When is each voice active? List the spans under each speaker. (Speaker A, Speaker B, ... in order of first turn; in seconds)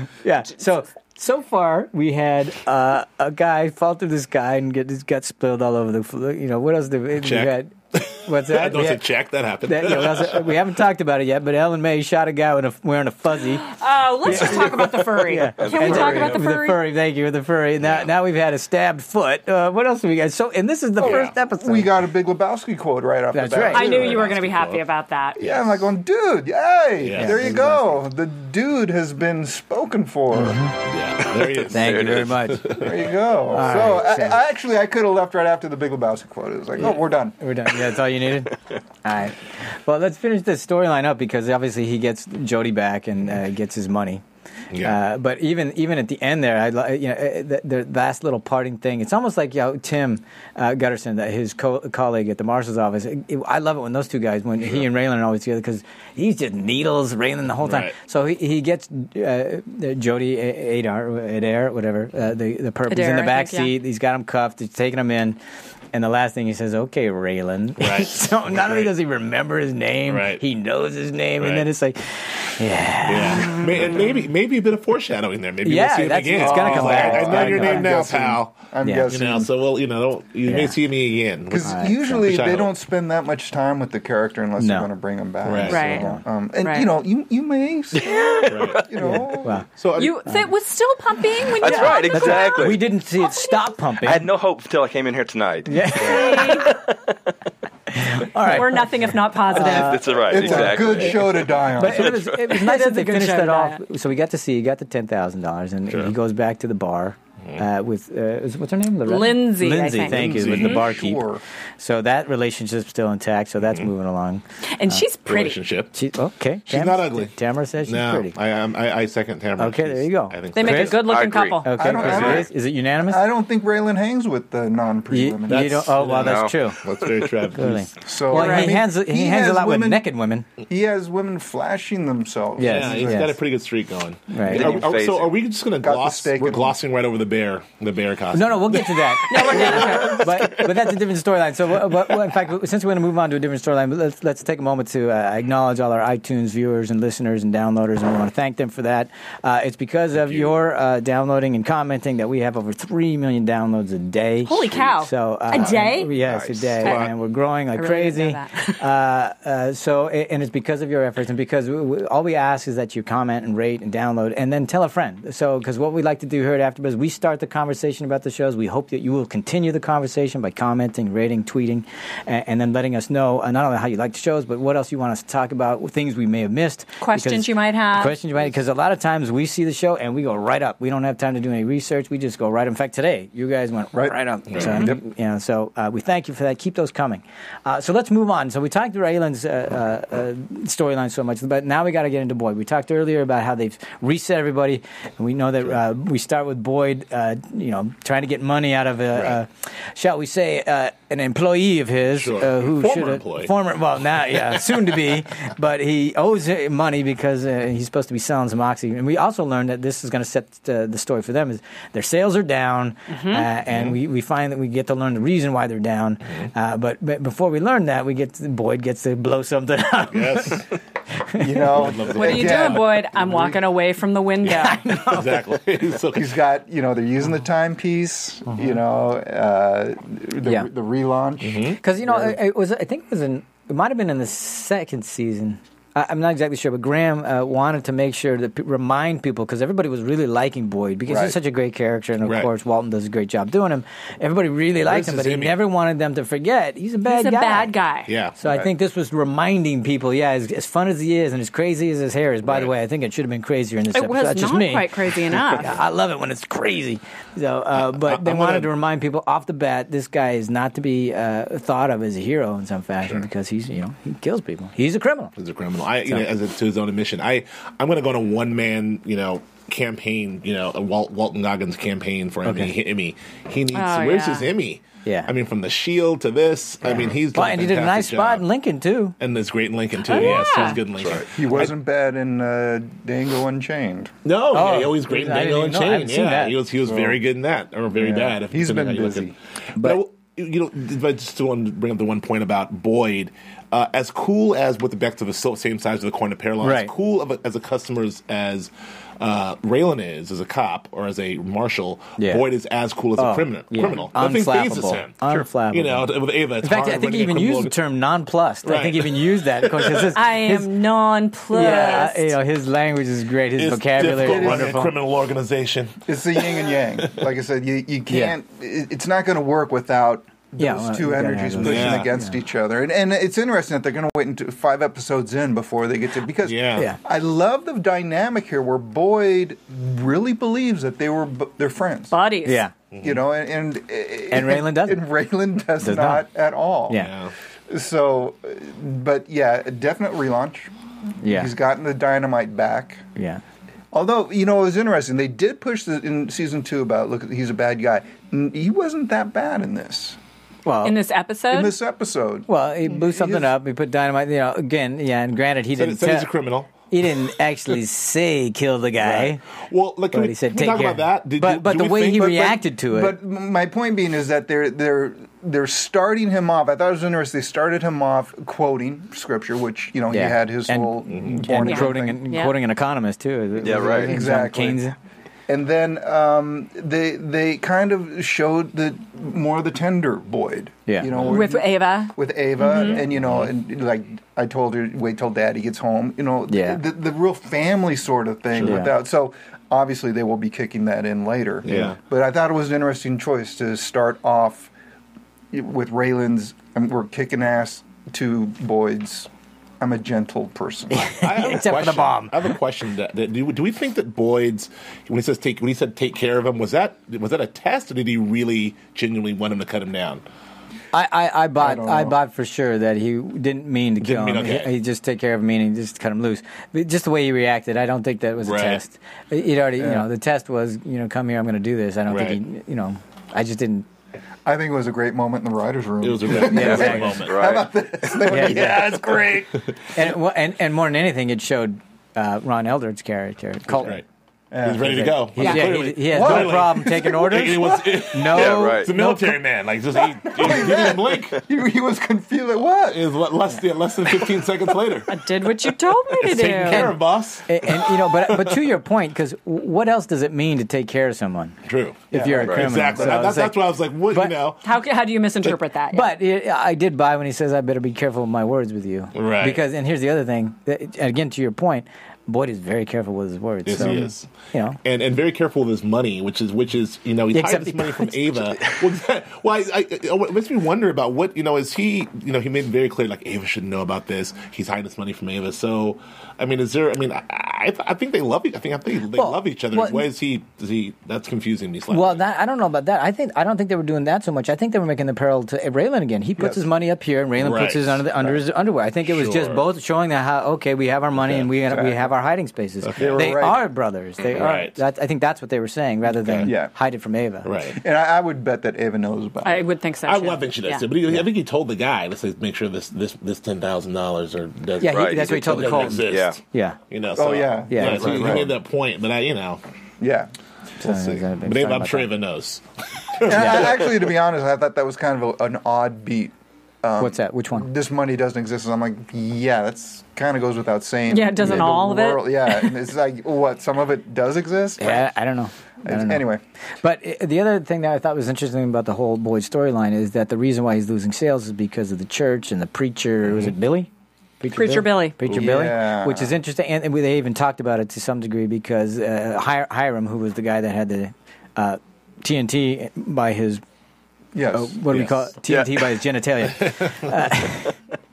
Speaker A: 0.2-9.1, 9.6-13.7, 14.2-21.9, 23.3-23.9, 27.1-28.0, 30.3-30.7, 31.7-32.9, 33.5-34.4, 36.8-44.2, 44.8-65.4, 65.9-73.9, 75.6-77.9, 78.8-79.1, 80.5-80.7, 81.6-82.2, 84.6-84.9, 85.5-86.2, 89.0-89.7, 91.6-94.3, 95.7-96.6, 97.9-101.2, 101.7-111.2, 111.8-115.0, 115.9-118.3, 119.6-121.0, 121.6-123.2, 125.1-126.8, 127.5-130.4, 132.6-133.4, 134.3-134.7, 138.3-221.8, 224.5-225.6, 230.4-230.7, 231.8-247.7, 248.4-254.9, 255.5-265.3, 272.4-272.7, 275.0-275.3, 277.3-279.1, 284.5-286.6, 289.8-290.0, 296.6-296.9, 302.2-302.4, 303.2-310.7, 311.5-314.9, 318.1-318.4, 320.6-322.4, 332.4-332.7, 334.3-335.1, 335.8-336.2, 336.9-337.1, 341.2-341.5, 343.1-343.4, 350.6-350.9, 352.5-359.4, 360.1-363.2, 370.1-374.9, 386.5-386.8, 388.6-388.9, 400.9-402.5, 410.9-423.9, 426.4-427.2, 428.3-428.9, 429.9-434.0, 434.8-439.4, 446.6-451.6, 452.1-454.4, 455.9-464.8, 467.3-468.5, 479.1-480.1, 481.9-497.5, 504.8-506.8, 507.7-508.4, 510.8-512.1, 513.4-513.6, 517.0-517.7, 524.8-526.3, 526.8-533.9, 534.4-543.6, 544.5-547.8
Speaker B: 7.2-10.6, 14.3-14.9, 17.8-18.1, 21.0-21.3, 23.7-24.8, 25.4-25.8, 27.0-27.4, 30.8-33.1, 44.7-45.0, 57.6-57.9, 67.8-68.9, 70.1-70.4, 71.4-71.7, 73.0-82.7, 85.4-86.0, 88.5-88.8, 89.8-90.3, 105.9-106.1, 110.0-110.8, 113.6-113.9, 115.2-115.9, 116.7-117.3, 117.8-121.1, 125.5-127.9, 132.6-141.0, 150.2-150.6, 155.5-155.8, 156.5-157.1, 184.5-184.9, 199.1-199.4, 202.1-203.5, 204.3-204.7, 213.7-214.0, 220.1-220.8, 221.7-223.0, 224.4-226.4, 231.4-231.8, 242.2-242.5, 244.8-245.6, 248.1-248.7, 252.4-252.7, 257.8-258.7, 265.4-278.4, 279.2-281.7, 284.2-307.8, 308.6-310.1, 313.6-317.2, 321.6-322.1, 326.4-326.9, 332.9-333.2, 336.9-337.3, 355.8-356.7, 359.0-362.5, 371.1-371.4, 381.1-381.4, 383.2-383.5, 388.5-388.8, 391.6-392.0, 401.2-410.2, 414.0-414.7, 418.4-418.8, 422.1-422.4, 426.0-427.4, 428.1-429.7, 433.7-434.0, 434.6-441.4, 442.9-445.2, 446.1-448.6, 451.7-454.7, 459.1-459.6, 463.6-464.3, 464.8-482.2, 487.4-488.4, 489.0-489.6, 491.1-491.5, 492.8-493.4, 494.3-494.8, 496.2-496.5, 497.4-497.8, 500.0-509.6, 510.8-513.9, 546.6-546.9
Speaker C: 13.6-16.8, 23.7-25.4, 62.9-63.7, 85.7-86.1, 86.6-86.9, 88.1-88.5, 89.9-93.7, 96.0-96.7, 98.4-100.2, 102.5-103.8, 109.0-110.6, 114.7-115.6, 120.5-122.0, 128.3-128.8, 139.3-140.3, 154.4-156.1, 156.8-157.1, 157.7-158.8, 177.0-178.1, 213.1-213.5, 222.1-224.8, 247.0-248.1, 253.9-255.7, 273.7-274.5, 280.0-280.8, 310.1-312.3, 332.1-332.7, 350.8-351.7, 371.6-372.6, 381.2-383.0, 445.1-446.9, 454.6-456.1, 499.4-500.9, 521.1-522.8, 534.5-535.2
Speaker D: 15.6-16.4, 31.7-32.3, 88.5-88.8, 91.6-92.8, 94.0-97.0, 99.7-102.4, 121.0-122.5, 126.2-127.3, 134.4-135.3, 156.2-156.7, 280.9-281.2, 373.6-374.1, 426.5-427.7, 438.3-438.9, 504.9-506.4
Speaker E: 21.0-24.3, 25.4-30.6, 32.7-37.3, 76.3-79.5, 81.5-89.6, 100.2-102.2, 110.4-111.4, 121.8-122.5, 123.0-125.9, 128.0-130.1, 130.7-133.3, 135.8-136.8, 183.9-185.0, 221.4-223.5, 226.1-232.4, 241.1-241.3, 281.2-284.1, 286.8-287.2, 288.0-289.3, 314.0-314.9, 316.1-332.1, 333.0-337.1, 337.7-340.7, 341.2-343.0, 343.9-350.2, 351.5-353.5, 362.1-372.2, 373.6-374.9, 375.5-394.7, 395.5-399.3, 399.8-401.2, 411.6-412.1, 419.8-420.1, 424.4-429.6, 434.5-438.0, 440.1-443.2, 452.1-453.2, 486.4-486.6, 491.7-492.0, 492.9-493.6, 496.4-496.7, 497.7-499.6, 507.1-508.5, 510.0-510.3, 513.2-525.1, 525.8-526.4, 535.3-536.3, 544.3-545.0